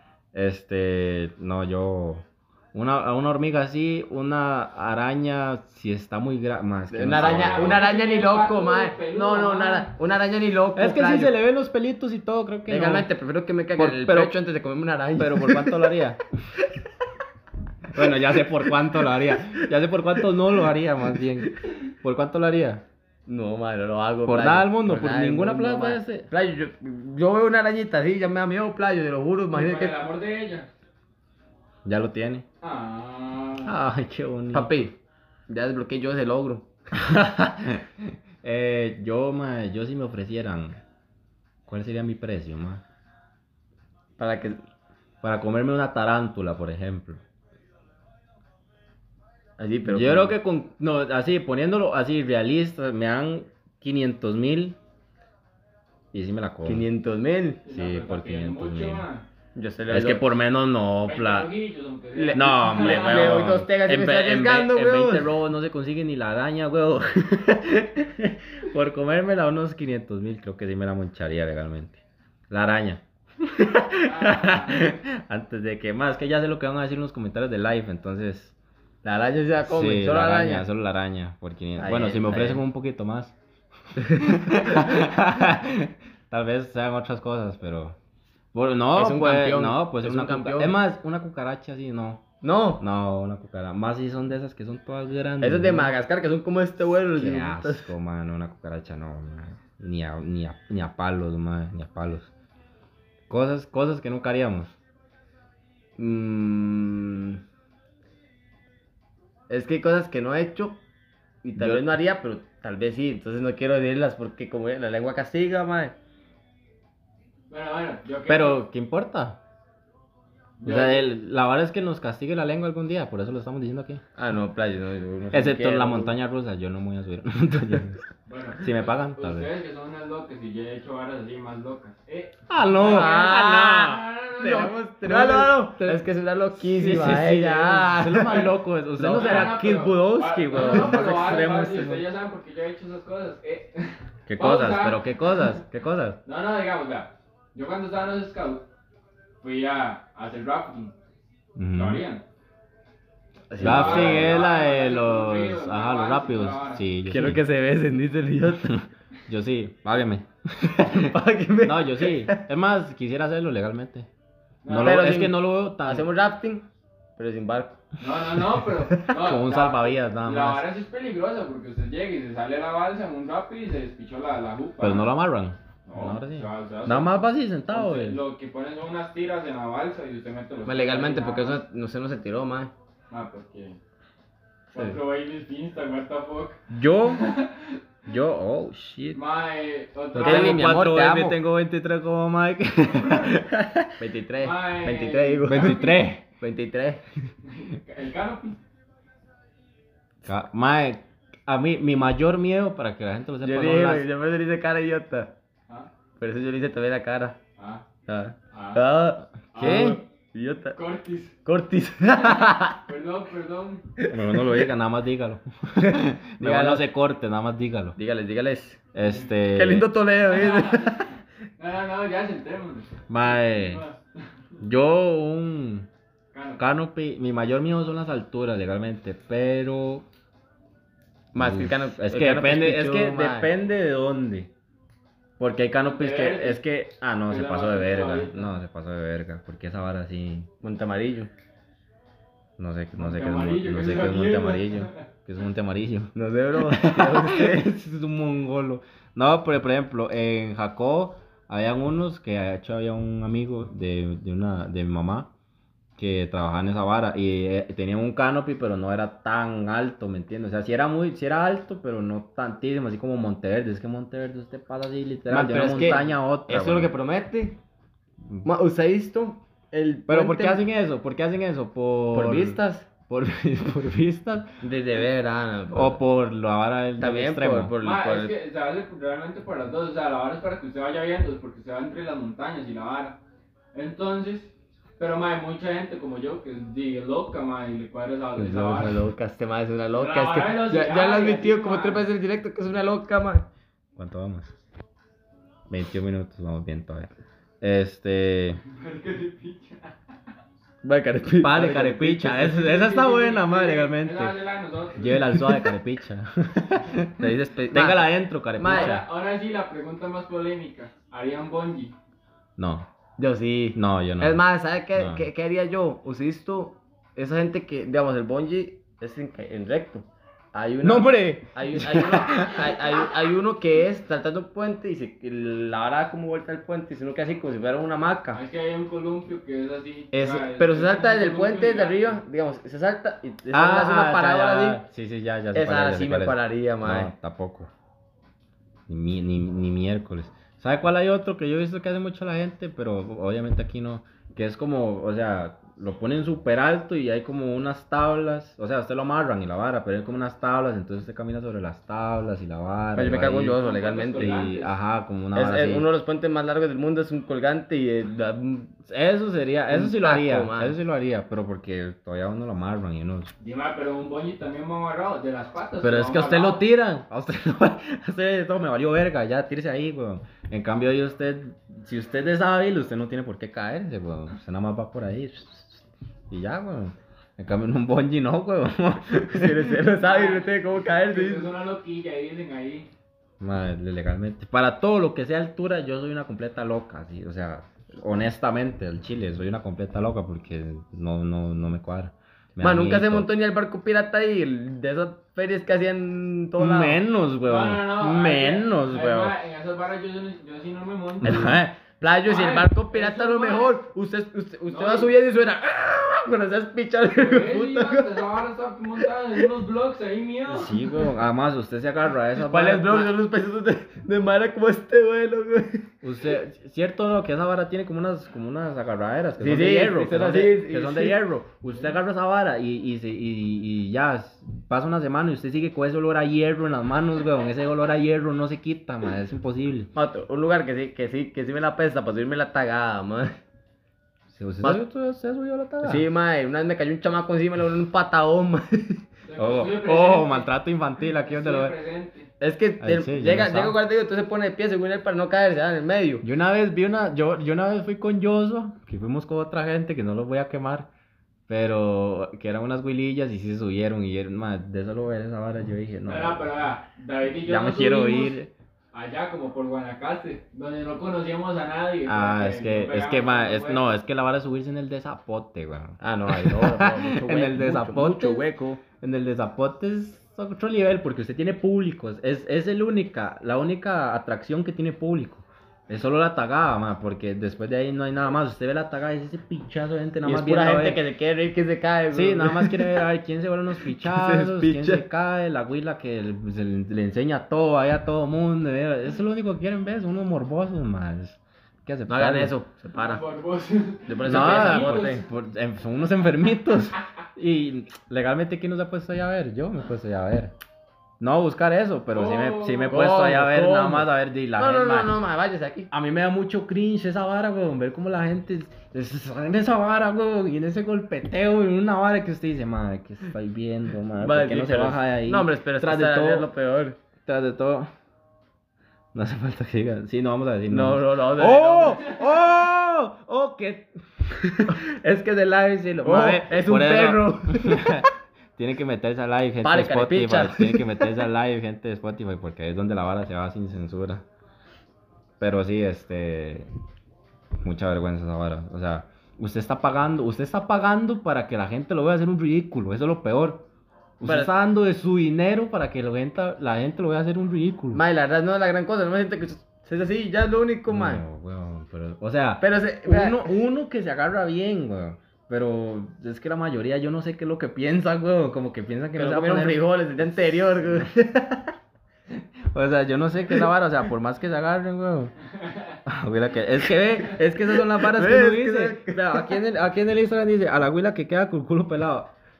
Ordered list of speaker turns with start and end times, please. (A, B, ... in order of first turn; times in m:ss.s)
0:00.3-0:07.8 A
0:06.9-0:11.3 B
0:07.1-0:09.9 C
0:10.8-0:13.1 A
0:12.7-0:15.9 B
0:13.8-0:14.3 A
0:15.2-0:16.2 A
0:17.9-0:22.8 A
0:23.3-0:29.9 B
0:24.2-0:26.3 A
0:29.5-0:30.7 C
0:31.8-0:32.4 A
0:32.6-0:33.7 C
0:33.6-0:34.7 A
0:34.5-0:34.9 B
0:35.5-0:36.6 B
0:36.9-0:40.8 A
0:41.7-0:42.8 A
0:44.2-0:44.6 B
0:45.2-0:47.2 A
0:49.6-0:50.4 B
0:49.9-0:54.8 A
0:56.1-0:56.8 A
0:56.6-0:57.6 B
0:57.6-0:59.2 C
0:57.7-0:59.0 A
0:59.5-1:00.2 B
0:59.9-1:01.5 A
1:01.0-1:03.4 C
1:02.1-1:05.3 B
1:02.3-1:18.5 A
1:14.0-1:14.9 C
1:19.0-1:20.6 B
1:19.6-1:23.3 A
1:21.8-1:22.6 B
1:24.0-1:28.0 A
1:28.5-1:32.2 A
1:28.9-1:30.8 B
1:32.4-1:32.8 B
1:32.8-1:35.9 A
1:35.4-1:37.9 B
1:36.9-1:42.3 A
1:43.3-1:44.7 A
1:46.0-1:47.4 B
1:49.5-1:50.8 B
1:51.4-1:55.9 B
1:51.6-1:51.8 A
1:57.5-1:58.6 C
1:58.3-1:59.4 A
2:00.6-2:01.1 C
2:00.6-2:04.0 A
2:04.2-2:06.1 B
2:05.3-2:08.0 A
2:08.3-2:14.7 C
2:08.6-2:09.5 A
2:12.5-2:16.0 A
2:12.8-2:19.6 B
2:16.5-2:22.0 A
2:19.0-2:25.6 C
2:20.6-2:21.1 B
2:24.3-2:26.2 A
2:26.2-2:28.6 C
2:29.4-2:30.9 C
2:31.6-2:32.0 A
2:31.7-2:32.2 C
2:33.5-2:34.4 B
2:33.6-2:36.8 C
2:33.6-2:37.4 A
2:37.1-2:38.8 B
2:38.7-2:41.1 A
2:40.8-2:42.4 B
2:41.6-2:44.1 A
2:44.6-2:45.1 C
2:44.7-2:46.1 A
2:44.8-2:46.6 B
2:47.2-2:47.8 B
2:48.0-2:55.0 C
2:49.1-2:50.7 A
2:54.8-2:58.2 A
2:55.8-3:01.6 C
3:00.6-3:02.7 B
3:03.1-3:03.8 C
3:04.7-3:07.8 C
3:06.7-3:07.2 A
3:08.1-3:09.2 A
3:09.1-3:10.7 C
3:10.1-3:13.9 A
3:10.2-3:11.4 B
3:14.0-3:15.8 B
3:14.4-3:16.0 C
3:15.5-3:16.2 A
3:16.4-3:17.0 B
3:17.4-3:18.6 C
3:20.2-3:24.0 A
3:23.4-3:25.3 B
3:26.2-3:27.4 B
3:27.6-3:27.8 C
3:28.1-3:30.8 B
3:28.5-3:28.8 C
3:29.5-3:30.0 C
3:29.6-3:30.0 A
3:30.7-3:31.4 C
3:31.4-3:32.8 B
3:32.2-3:33.9 C
3:34.0-3:34.5 B
3:34.1-3:38.0 A
3:35.8-3:36.8 B
3:38.0-3:38.8 B
3:38.9-3:39.9 A
3:39.5-3:41.1 B
3:40.3-3:44.0 C
3:43.1-3:43.8 A
3:44.6-3:45.9 A
3:46.3-3:46.6 C
3:46.6-3:50.0 A
3:51.3-3:53.5 B
3:51.3-3:54.5 A
3:55.4-4:00.5 A
3:55.8-3:56.6 C
3:57.3-3:58.5 C
4:00.6-4:01.3 B
4:02.6-4:06.1 A
4:03.0-4:05.0 C
4:06.1-4:07.7 B
4:06.7-4:15.3 A
4:16.0-4:26.9 A
4:25.3-4:27.6 B
4:28.4-4:30.6 B
4:30.1-4:34.6 A
4:32.1-4:32.9 B
4:34.6-4:36.0 B
4:35.7-4:37.7 A
4:37.0-4:38.3 B
4:37.8-4:43.2 C
4:43.7-4:49.0 C
4:48.4-4:53.5 B
4:50.0-4:52.0 C
4:54.0-4:54.5 A
4:55.7-4:57.1 A
4:57.6-4:58.6 A
4:58.6-4:59.9 C
5:00.8-5:02.4 B
5:01.4-5:04.4 A
5:02.3-5:05.3 C
5:05.0-5:09.0 A
5:07.2-5:09.0 B
5:08.6-5:11.9 C
5:12.6-5:12.9 A
5:13.2-5:28.4 B
5:13.7-5:14.4 A
5:14.9-5:15.2 A
5:20.8-5:22.7 A
5:28.3-5:32.2 C
5:30.1-5:34.8 B
5:33.5-5:37.7 A
5:35.5-5:37.1 B
5:38.9-5:53.6 A
5:53.0-5:54.4 B
5:53.5-5:54.7 C
5:54.2-5:55.8 A
5:55.3-5:58.8 B
5:58.8-6:03.3 A
5:59.7-6:00.7 B
6:03.4-6:06.6 C
6:05.8-6:19.7 A
6:19.3-6:21.5 B
6:20.0-6:22.9 C
6:23.4-6:33.3 A
6:32.6-6:37.0 B
6:36.6-6:39.3 A
6:37.4-6:41.5 C
6:41.2-6:41.8 A
6:41.3-6:48.2 B
6:42.2-6:43.8 C
6:44.7-6:45.1 C
6:47.2-6:50.8 C
6:50.5-6:53.1 A
6:52.4-6:55.9 B
6:56.0-7:09.9 A
6:59.4-7:01.2 B
7:09.9-7:13.4 B
7:14.3-7:16.0 A
7:15.8-7:19.0 B
7:19.2-7:20.5 C
7:19.4-7:21.7 A
7:21.1-7:22.3 C
7:22.4-7:26.2 B
7:22.8-7:23.8 A
7:26.2-7:30.9 A
7:31.5-7:36.5 A
7:36.0-7:38.4 C
7:37.4-7:38.5 A
7:38.9-7:43.9 C
7:42.0-8:01.0 A
7:46.0-7:48.8 B
8:00.2-8:03.0 B
8:02.1-8:12.5 A
8:03.9-8:05.0 B
8:12.1-8:13.2 B
8:12.9-8:15.2 C
8:14.1-8:15.1 B
8:14.2-8:20.5 A
8:21.2-8:25.1 A
8:22.1-8:23.0 C
8:22.9-8:25.9 B
8:25.9-8:36.5 A
8:34.2-8:37.0 B
8:37.2-8:37.9 A
8:39.1-8:54.2 A
8:40.7-8:42.1 B
8:45.8-8:48.0 B
8:49.6-8:51.2 B
8:55.4-8:56.7 A
8:57.6-9:03.6 A
9:04.2-9:08.0 A
9:04.2-9:04.5 B
9:07.9-9:11.2 B
9:10.9-9:19.8 A
9:12.6-9:13.5 B
9:19.2-9:21.1 B
9:20.7-9:21.7 A
9:22.7-9:25.3 A
9:25.6-9:26.0 C
9:26.0-9:32.3 A
9:27.8-9:29.5 B